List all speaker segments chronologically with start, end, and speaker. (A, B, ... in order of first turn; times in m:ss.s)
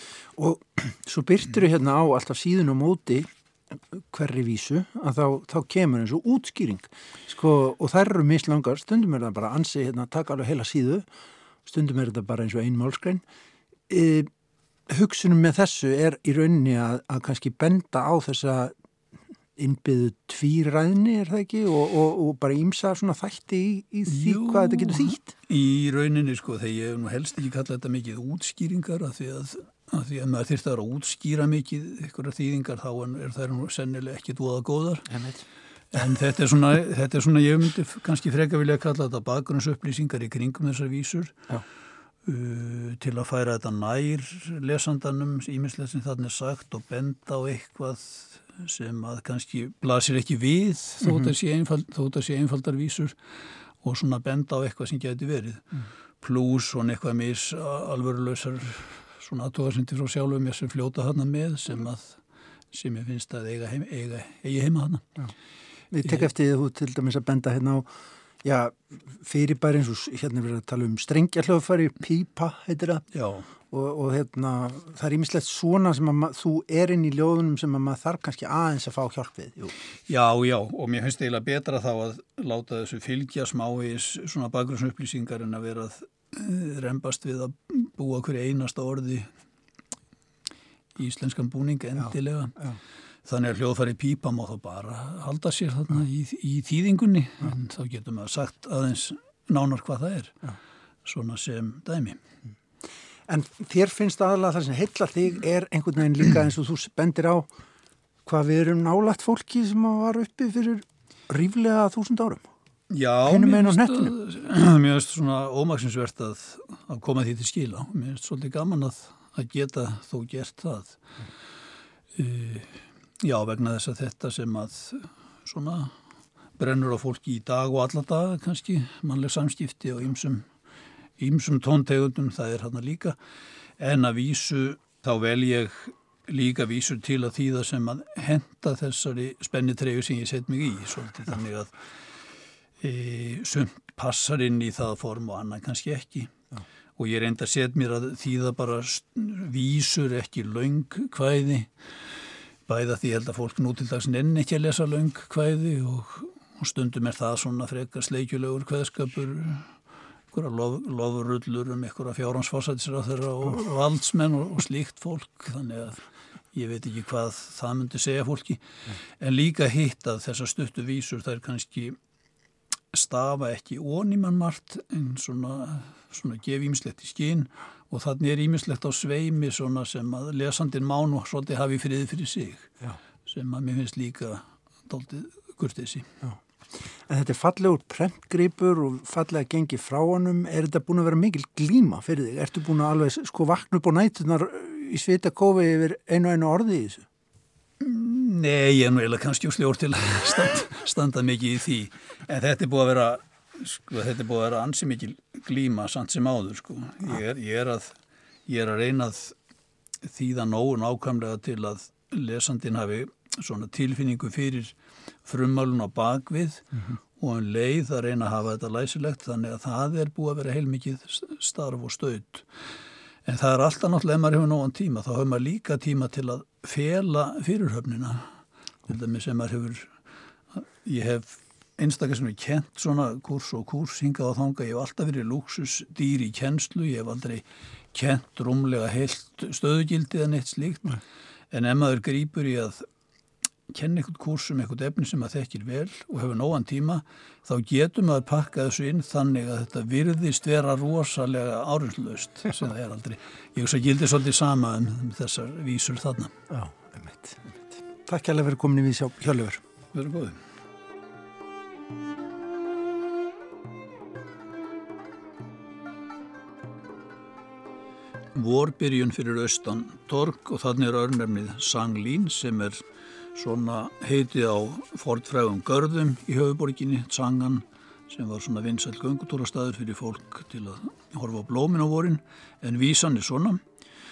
0:00.3-0:11.1 A
0:11.6-0:13.2 A
0:13.9-0:14.3 A
0:14.9-0:18.7 A
0:19.6-0:25.3 A
0:24.1-0:35.1 B
0:35.1-0:35.4 A
0:35.9-0:41.4 B
0:42.2-0:53.2 B
0:51.0-0:51.3 A
0:53.8-0:55.7 B
0:56.2-1:02.2 B
1:02.7-1:05.0 B
1:05.9-1:13.0 A
1:13.1-1:13.4 B
1:13.7-1:19.8 A
1:20.1-1:29.3 B
1:31.0-1:32.6 B
1:33.2-1:40.4 B
1:41.0-1:42.2 B
1:43.3-1:47.5 A
1:48.2-1:52.4 A
1:52.9-2:01.0 B
1:53.2-1:54.1 A
2:02.2-2:05.9 B
2:06.6-2:10.4 B
2:11.2-2:13.2 B
2:13.8-2:21.7 B
2:22.8-2:26.3 B
2:27.0-2:31.7 B
2:32.7-2:39.7 B
2:40.3-2:48.6 B
2:49.2-2:52.0 B
2:52.9-3:02.7 B
3:03.2-3:06.1 B
3:06.2-3:17.0 A
3:17.8-3:28.0 B
3:28.5-3:29.3 B
3:30.0-3:42.5 B
3:43.2-3:48.3 B
3:48.9-3:49.9 B
3:50.5-4:01.0 B
4:01.5-4:02.8 B
4:03.7-4:16.3 B
4:16.5-4:19.6 A
4:19.9-4:20.4 B
4:28.3-4:32.8 B
4:33.3-4:43.6 B